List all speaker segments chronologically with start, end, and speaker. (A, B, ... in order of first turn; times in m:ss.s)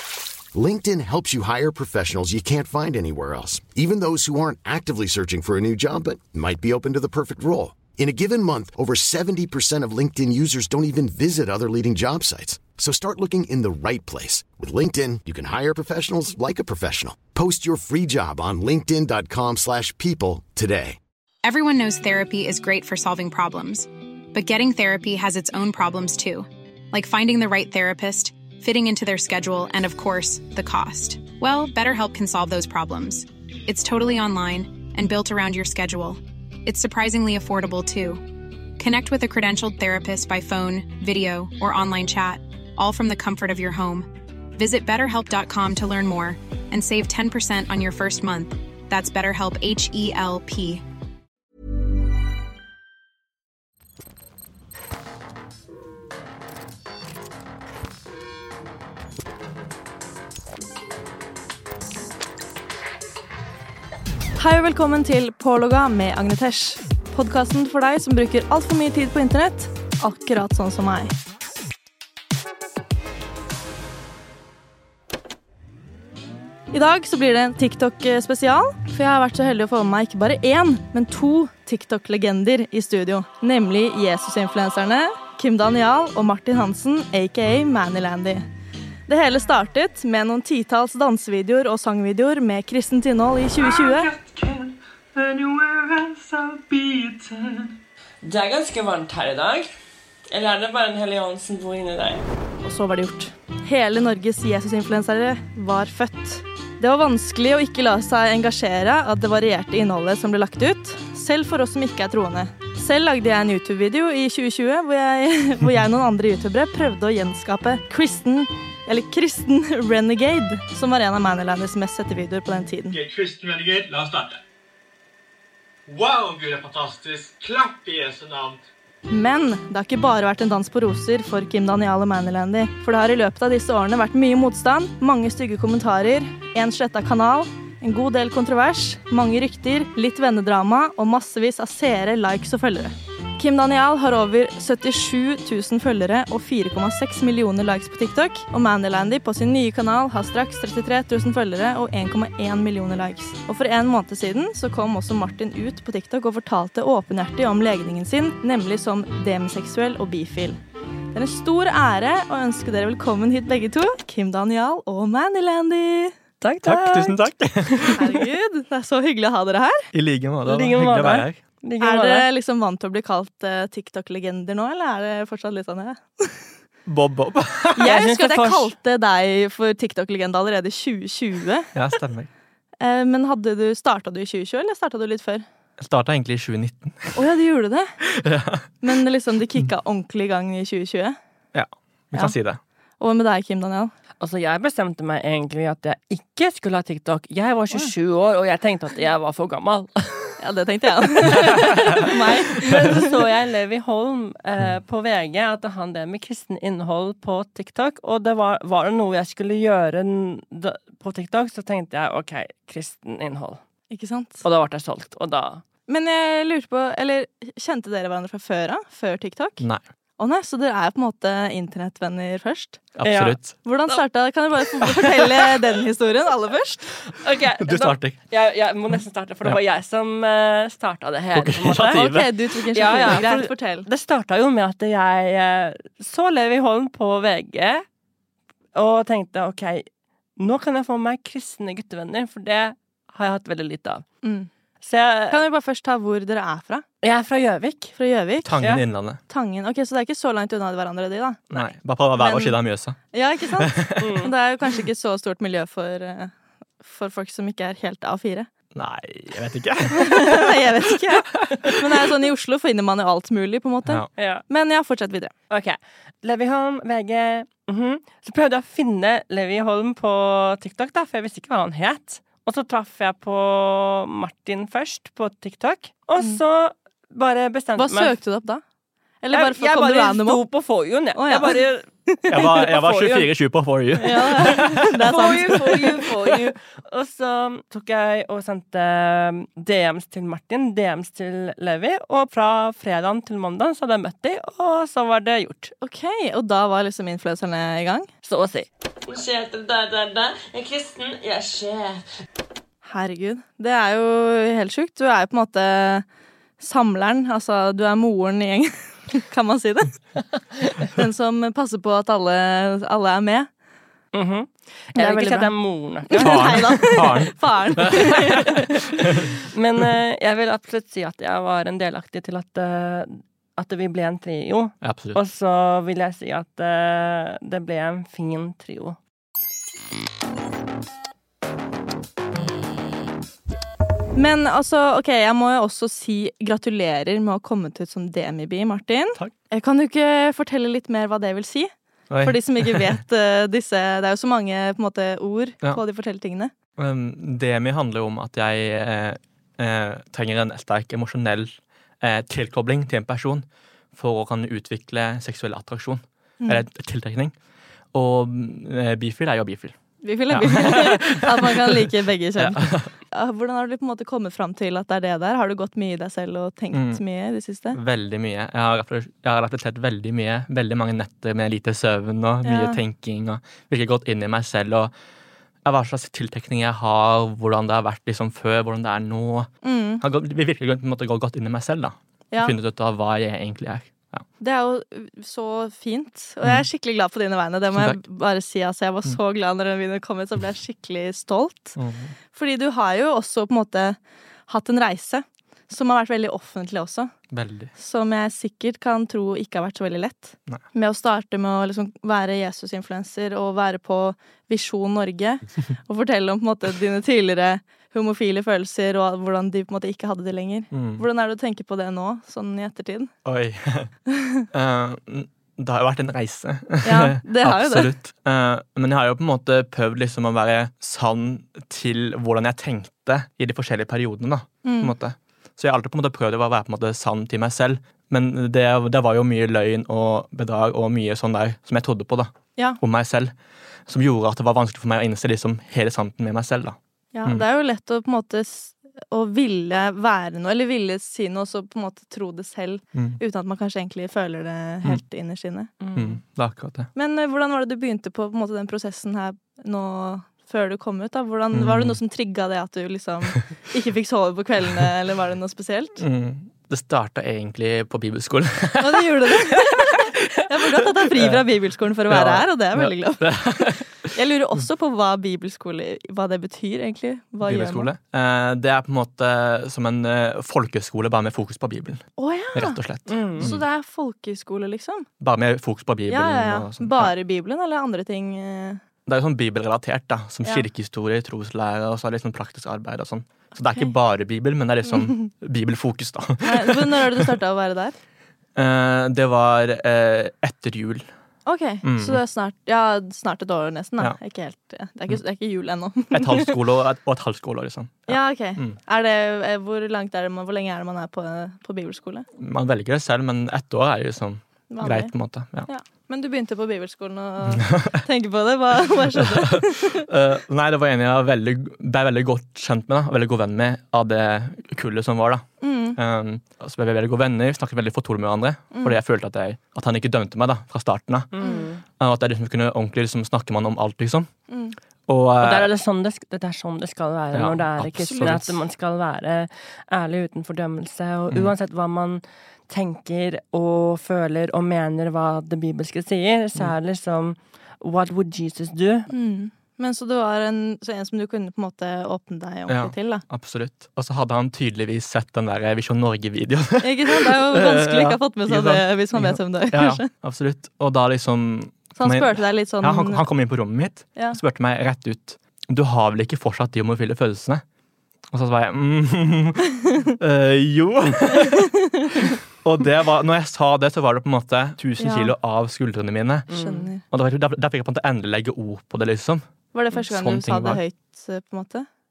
0:00.5-0:21.0 A
0:21.4-0:38.2 B
0:38.8-0:50.8 B
1:04.4-1:11.1 C
1:16.7-1:28.4 C
1:29.1-1:34.1 C
1:33.9-1:37.7 D
1:38.2-1:39.7 D
1:40.3-1:42.2 D
1:42.6-2:03.0 C
2:02.9-2:04.4 E
2:05.9-2:08.6 E
2:09.1-2:40.6 C
2:41.1-2:46.1 C
2:46.4-2:48.2 D
2:46.6-2:48.0 F
2:48.0-2:49.9 C
2:49.9-2:51.4 F
2:50.4-2:52.3 D
2:51.8-2:56.4 C
2:56.9-2:57.9 F
2:57.8-3:01.7 C
2:57.8-2:58.7 D
3:01.7-3:02.3 F
3:02.8-3:05.4 C
3:05.8-3:07.2 F
3:07.1-3:07.9 C
3:08.2-3:08.7 F
3:08.8-3:11.2 C
3:11.5-3:12.6 F
3:13.0-3:13.9 C
3:14.2-3:20.4 D
3:20.4-3:23.2 C
3:21.3-3:33.6 D
3:21.6-3:21.9 F
3:33.9-3:34.4 C
3:34.4-3:35.6 D
3:35.9-3:39.6 C
3:40.2-3:42.9 C
3:43.0-3:43.6 F
3:43.0-3:44.0 D
3:43.6-3:46.8 C
3:47.2-3:52.0 D
3:47.6-3:48.2 F
3:51.3-3:52.4 F
3:51.9-3:53.9 C
3:52.7-3:57.8 D
3:58.8-3:59.9 D
4:00.4-4:04.0 D
4:04.2-4:04.5 C
4:04.8-4:05.4 D
4:05.3-4:06.8 C
4:07.0-4:08.0 D
4:08.0-4:08.8 C
4:08.4-4:09.2 F
4:09.3-4:11.6 C
4:11.5-4:13.0 F
4:12.2-4:12.6 C
4:13.1-4:18.5 C
4:13.6-4:14.0 F
4:14.0-4:14.3 D
4:18.7-4:20.7 F
4:19.9-4:25.3 C
4:21.3-4:21.9 F
4:24.2-4:24.4 D
4:25.5-4:38.1 D
4:37.8-4:38.6 C
4:39.2-4:40.4 C
4:39.3-4:43.3 D
4:41.1-4:42.6 C
4:42.3-4:44.9 F
4:44.0-4:46.4 C
4:44.4-4:55.7 D
4:55.8-4:58.1 C
4:58.2-5:02.1 D
5:02.8-5:06.0 C
5:06.6-5:10.1 C
5:10.9-5:13.5 C
5:14.1-5:17.0 D
5:15.0-5:18.7 C
5:16.2-5:18.5 F
5:17.8-5:18.6 D
5:19.4-5:29.0 D
5:24.8-5:25.2 F
5:34.2-5:46.5 C
5:42.1-5:42.9 F
5:46.8-5:57.3 F
5:57.9-5:59.8 F
6:00.0-6:07.8 C
6:00.3-6:02.9 F
6:06.7-6:07.0 F
6:07.7-6:14.9 F
6:12.4-6:12.8 C
6:15.6-6:24.2 F
6:19.6-6:20.0 C
6:24.4-6:31.8 C
6:27.7-6:28.0 F
6:31.8-6:32.1 F
6:32.3-6:37.1 C
6:37.3-6:37.7 F
6:37.8-6:53.1 C
6:50.7-6:51.0 F
6:53.2-6:53.9 F
6:54.1-6:54.4 C
6:54.5-7:13.3 F
6:56.8-6:57.9 C
7:04.6-7:04.9 C
7:13.9-7:17.4 F
7:17.1-7:25.7 C
7:22.9-7:23.2 F
7:25.8-7:26.2 D
7:25.9-7:26.9 F
7:26.9-7:36.0 C
7:31.5-7:32.0 F
7:36.0-7:41.4 F
7:38.8-7:47.9 C
7:42.1-7:44.1 F
7:47.4-7:53.6 F
7:52.2-7:55.1 C
7:53.1-7:53.5 D
7:55.2-7:57.1 F
7:56.1-7:58.8 C
7:59.0-8:07.4 F
8:04.8-8:05.3 C
8:06.4-8:08.0 C
8:08.6-8:11.1 F
8:11.4-8:16.6 C
8:11.8-8:12.2 F
8:16.1-8:18.8 F
8:18.1-8:22.2 C
8:22.4-8:25.7 F
8:24.7-8:25.1 C
8:25.6-8:30.0 C
8:27.5-8:28.0 F
8:29.2-8:41.3 F
8:35.6-8:36.0 C
8:38.7-8:39.0 C
8:41.3-8:41.8 D
8:41.4-8:41.7 C
8:42.0-8:44.3 F
8:44.5-8:44.8 C
8:45.1-8:45.7 F
8:45.4-8:59.1 D
8:47.3-8:48.6 F
8:48.0-8:48.4 C
8:59.1-9:03.2 C
9:02.7-9:17.6 F
9:06.8-9:10.1 C
9:12.0-9:13.3 C
9:14.1-9:14.4 C
9:18.3-9:19.6 F
9:19.8-9:20.1 C
9:20.2-9:21.7 F
9:21.5-9:22.3 C
9:22.6-9:26.5 F
9:25.0-9:25.3 C
9:26.5-9:26.9 D
9:26.5-9:27.0 C
9:27.1-9:30.8 F
9:29.7-9:31.8 C